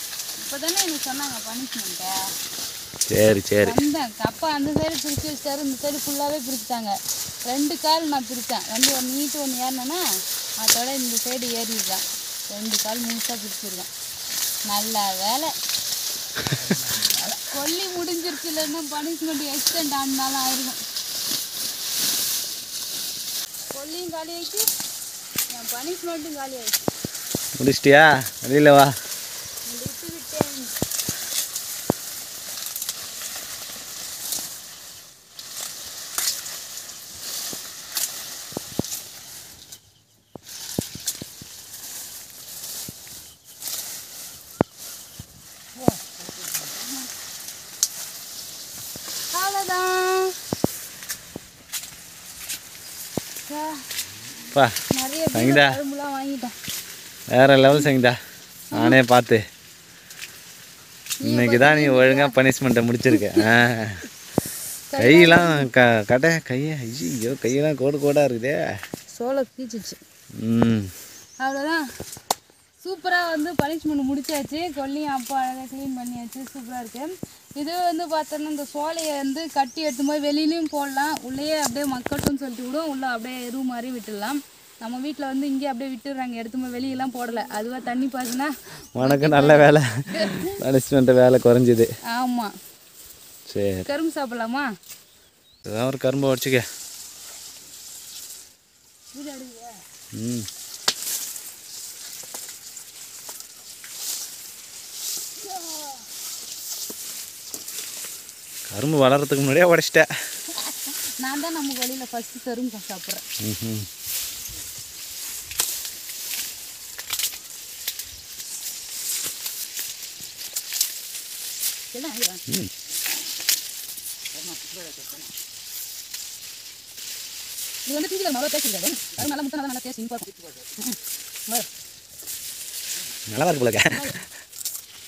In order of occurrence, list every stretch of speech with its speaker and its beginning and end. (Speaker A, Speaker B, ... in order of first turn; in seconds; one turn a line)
Speaker A: 0.5-2.2
Speaker B: 3.1-3.8
Speaker A: 3.6-10.0
Speaker A: 10.6-13.9
Speaker A: 14.7-15.5
Speaker A: 17.1-20.8
Speaker A: 23.7-24.6
Speaker A: 25.5-26.9
Speaker B: 27.6-28.9
Speaker A: 29.7-30.7
Speaker A: 49.3-50.4
Speaker A: 53.5-53.8
Speaker A: 54.9-56.5
Speaker B: 55.3-55.8
Speaker B: 57.3-58.2
Speaker B: 58.7-59.4
Speaker A: 61.2-62.4
Speaker B: 61.2-64.0
Speaker A: 63.1-63.5
Speaker A: 64.9-65.7
Speaker B: 65.0-68.6
Speaker A: 69.1-70.0
Speaker B: 70.4-70.9
Speaker A: 71.4-71.8
Speaker A: 72.8-90.6
Speaker B: 89.0-91.9
Speaker A: 92.1-92.5
Speaker B: 93.5-93.9
Speaker A: 93.9-94.7
Speaker B: 95.7-96.6
Speaker A: 99.1-99.8
Speaker B: 100.2-100.5
Speaker A: 105.5-106.0
Speaker B: 108.7-110.1
Speaker A: 110.5-113.2
Speaker B: 113.4-113.9
Speaker A: 121.9-122.4
Speaker A: 127.9-131.7
Speaker B: 133.3-134.0